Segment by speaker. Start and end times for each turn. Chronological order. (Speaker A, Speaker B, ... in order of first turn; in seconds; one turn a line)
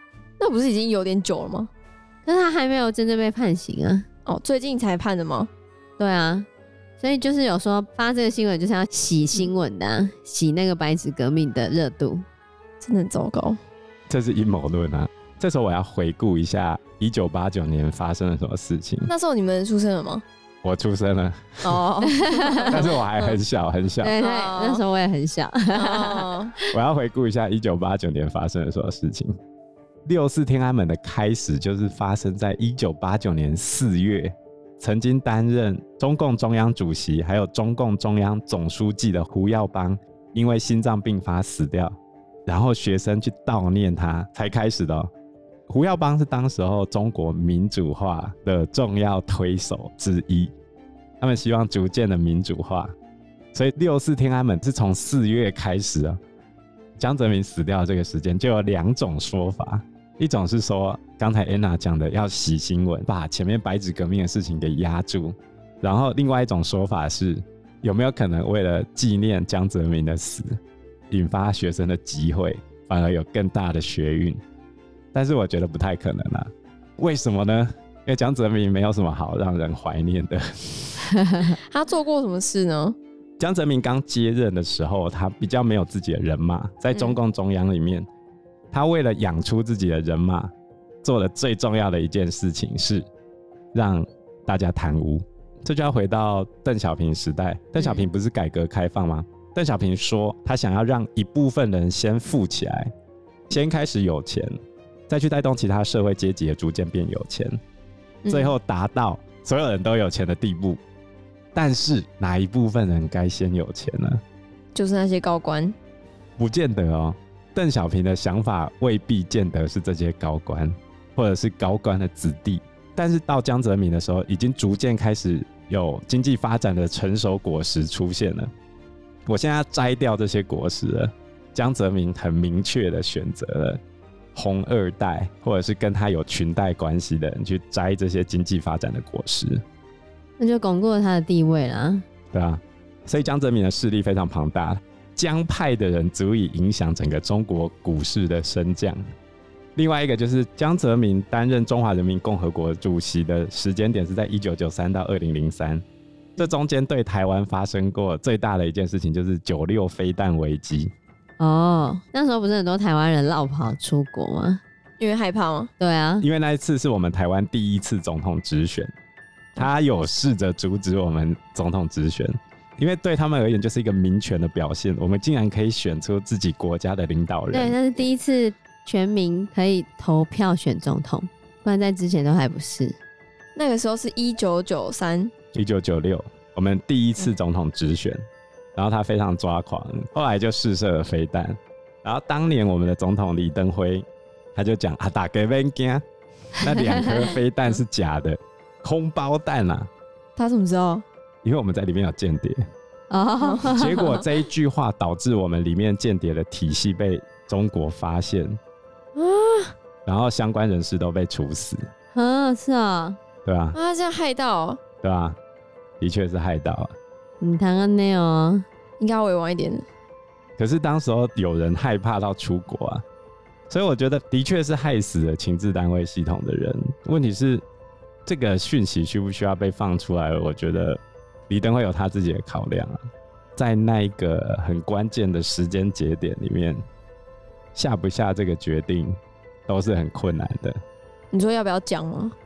Speaker A: 0.4-1.7
Speaker B: 2.2-4.0
Speaker A: 4.2-5.5
Speaker B: 6.0-6.5
Speaker B: 7.0-12.2
Speaker A: 12.8-13.6
Speaker C: 14.1-19.1
Speaker A: 19.1-20.2
Speaker C: 20.6-21.8
Speaker A: 21.6-23.4
Speaker B: 22.1-22.8
Speaker C: 22.7-24.1
Speaker B: 24.0-26.6
Speaker A: 24.1-24.8
Speaker A: 25.7-26.5
Speaker C: 26.7-29.3
Speaker C: 30.1-45.1
Speaker C: 45.7-50.5
Speaker C: 51.2-52.9
Speaker C: 53.5-56.2
Speaker C: 57.0-70.6
Speaker C: 71.1-74.4
Speaker C: 75.1-81.1
Speaker B: 81.1-81.5
Speaker A: 81.7-83.0
Speaker C: 83.4-88.1
Speaker C: 88.7-90.5
Speaker C: 91.0-93.1
Speaker C: 93.7-102.9
Speaker A: 97.8-98.1
Speaker C: 103.5-104.5
Speaker C: 105.1-107.6
Speaker A: 108.2-108.5
Speaker C: 108.3-110.8
Speaker C: 111.5-114.2
Speaker A: 114.7-115.8
Speaker C: 116.4-128.5
Speaker C: 129.3-133.8
Speaker C: 134.3-139.6
Speaker B: 140.4-142.0
Speaker C: 142.3-149.0
Speaker C: 149.8-155.8
Speaker C: 156.4-160.9
Speaker B: 161.4-164.6
Speaker A: 165.0-165.7
Speaker B: 165.8-166.2
Speaker C: 166.2-168.9
Speaker C: 169.6-177.8
Speaker B: 177.5-183.0
Speaker A: 183.6-185.3
Speaker C: 185.5-188.2
Speaker C: 188.8-196.0
Speaker C: 196.6-199.9
Speaker B: 196.6-197.3
Speaker A: 200.3-201.0
Speaker C: 201.4-202.6
Speaker B: 203.1-204.2
Speaker A: 203.4-203.8
Speaker C: 203.7-208.6
Speaker A: 209.2-209.7
Speaker C: 210.0-211.9
Speaker B: 212.1-213.2
Speaker C: 213.4-213.8
Speaker A: 213.7-214.8
Speaker C: 215.0-215.4
Speaker C: 216.0-216.9
Speaker B: 217.4-218.6
Speaker A: 219.0-219.9
Speaker C: 220.6-223.0
Speaker C: 223.7-227.6
Speaker C: 228.2-233.0
Speaker C: 233.6-236.8
Speaker C: 237.7-240.8
Speaker A: 241.3-242.3